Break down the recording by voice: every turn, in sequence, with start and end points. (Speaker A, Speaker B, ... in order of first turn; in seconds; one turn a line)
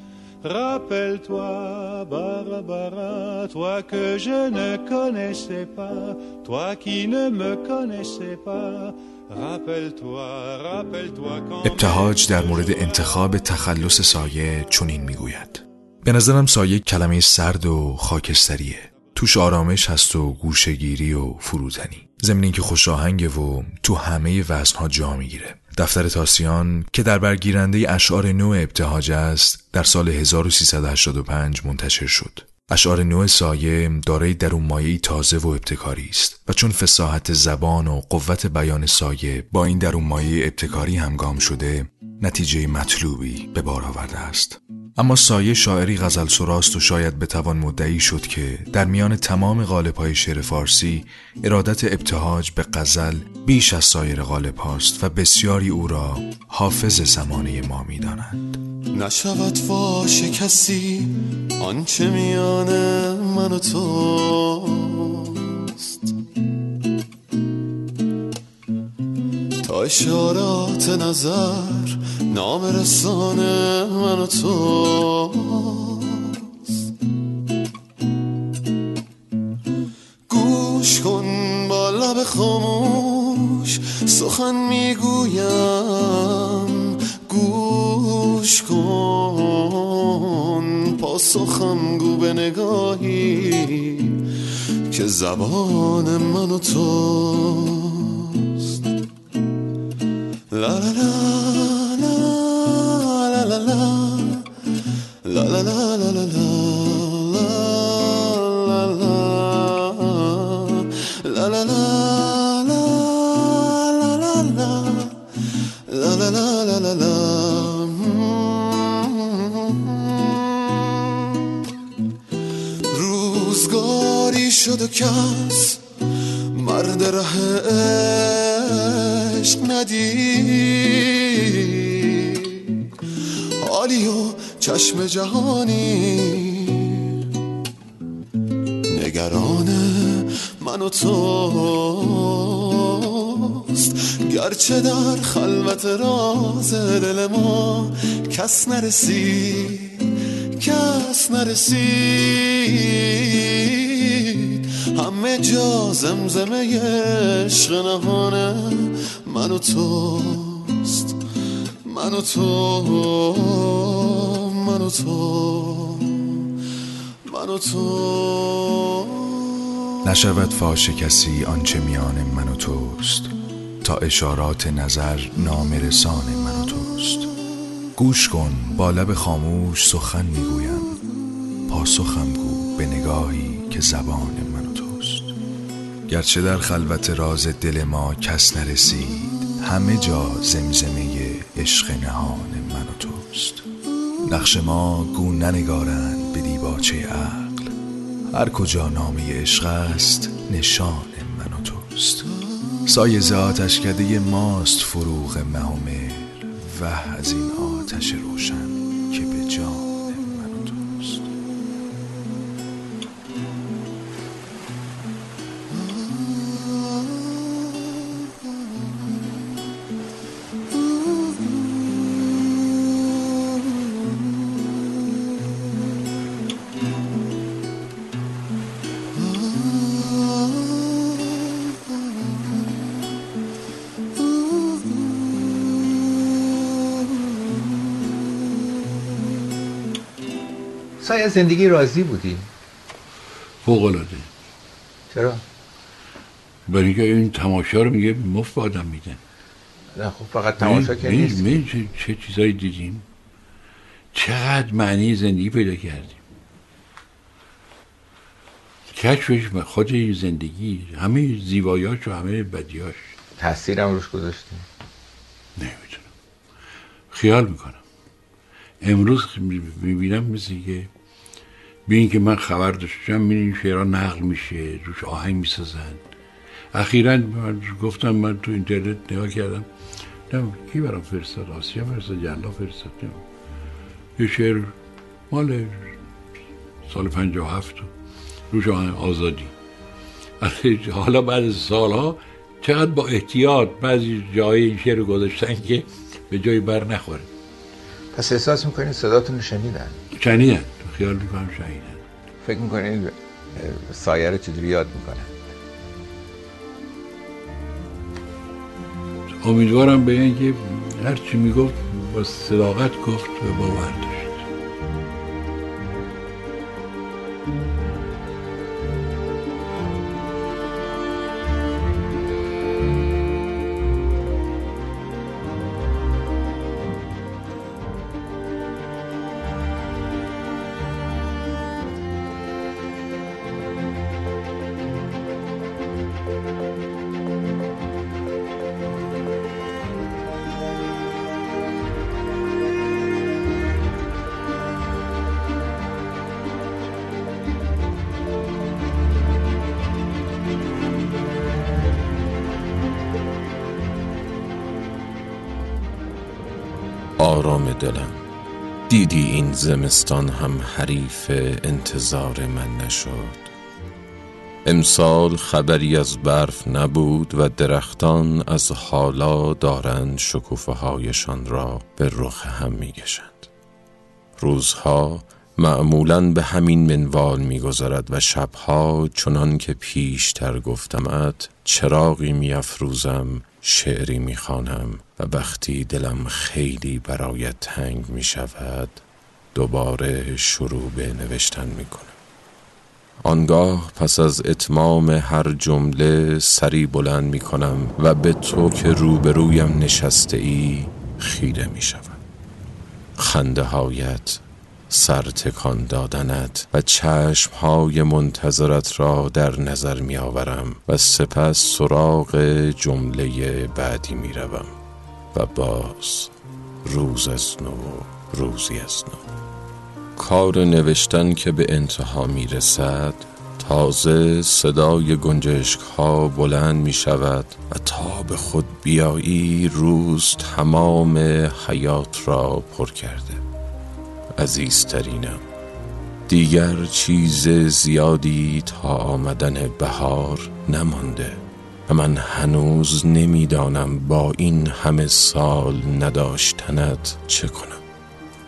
Speaker A: 0.4-13.3
Speaker B: 11.6-58.6
Speaker C: 58.9-66.1
Speaker C: 69.6-76.4
Speaker C: 80.3-94.2
Speaker C: 94.9-98.8
Speaker C: 100.5-104.5
Speaker C: 105.2-115.3
Speaker C: 115.9-121.4
Speaker C: 122.9-125.8
Speaker C: 126.5-132.7
Speaker C: 133.6-137.2
Speaker C: 138.9-161.2
Speaker C: 161.8-166.5
Speaker C: 167.3-169.4
Speaker B: 170.0-177.3
Speaker B: 178.0-181.0
Speaker B: 181.7-185.3
Speaker B: 186.1-193.6
Speaker B: 194.3-197.7
Speaker B: 198.3-202.3
Speaker B: 202.9-211.3
Speaker C: 215.7-217.1
Speaker C: 220.8-222.2
Speaker C: 229.2-230.6
Speaker C: 234.6-235.0
Speaker D: 241.0-242.5
Speaker E: 243.6-244.3
Speaker D: 245.1-245.4
Speaker E: 246.7-249.2
Speaker D: 250.0-251.5
Speaker E: 250.6-253.1
Speaker E: 254.1-256.2
Speaker E: 258.9-263.1
Speaker D: 263.4-264.6
Speaker E: 265.6-266.1
Speaker E: 267.1-267.8
Speaker E: 268.8-270.9
Speaker E: 271.9-276.0
Speaker E: 276.7-279.7
Speaker E: 280.3-283.2
Speaker E: 284.2-284.7
Speaker E: 285.3-285.9
Speaker E: 286.9-287.9
Speaker E: 288.5-289.5
Speaker E: 290.4-297.3
Speaker D: 298.1-300.0
Speaker E: 300.1-302.0
Speaker D: 302.4-305.3
Speaker E: 309.4-314.5
Speaker F: 357.2-358.2
Speaker F: 358.9-363.5
Speaker F: 364.6-373.5
Speaker F: 374.4-389.0
Speaker F: 389.6-392.1
Speaker F: 393.2-402.2
Speaker F: 403.2-414.8
Speaker F: 415.3-416.3
Speaker F: 416.9-419.2
Speaker F: 420.2-433.4
Speaker F: 434.4-435.4
Speaker F: 436.3-447.8